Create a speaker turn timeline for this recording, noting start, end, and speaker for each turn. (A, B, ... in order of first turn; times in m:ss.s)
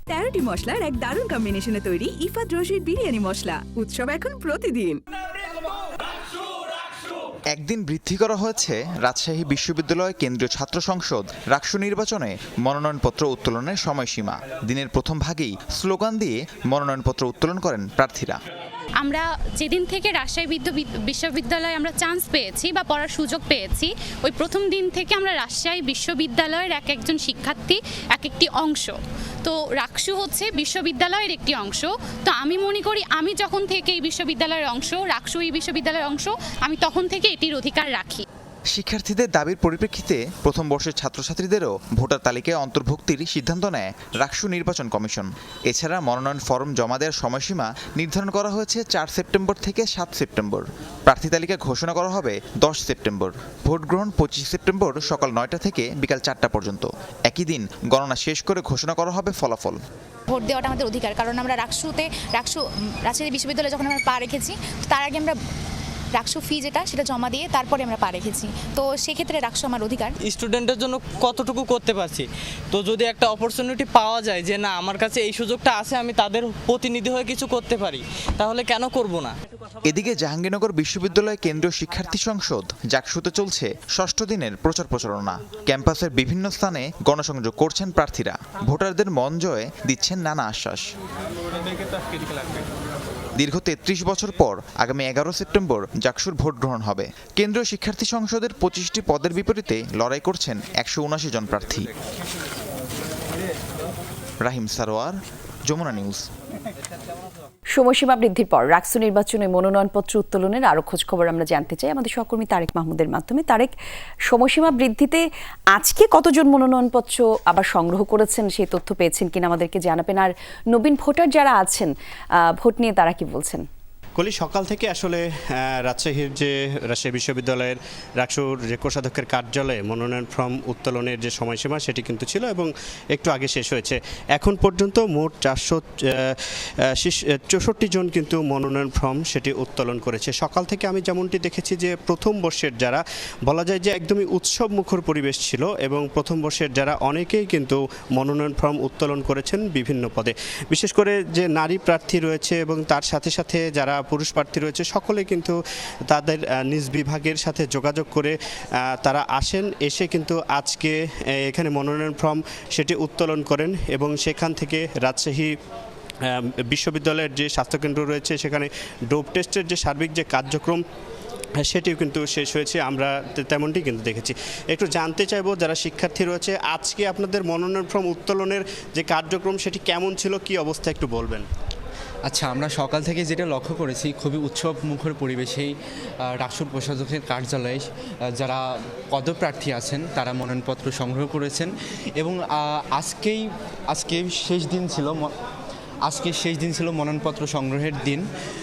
0:00.1-0:05.0 A
0:07.5-0:18.4 B
0:19.0-0:38.2 C
0:38.7-0:59.8 B
1:00.3-1:05.4 D
1:06.1-1:10.2 D
1:10.2-1:19.3 E
1:19.9-1:30.9 B
1:33.4-1:41.9 B
1:44.4-1:45.2 B
1:45.7-1:46.2 B
1:47.7-1:53.7 F
1:54.3-2:01.9 F
2:02.4-2:03.6 F
2:04.2-2:16.4 G
2:17.0-2:35.6 G
2:36.1-2:45.6 G
2:46.2-2:50.8 G
2:51.6-3:01.5 G
3:02.2-3:15.3 H
3:16.0-3:18.3 H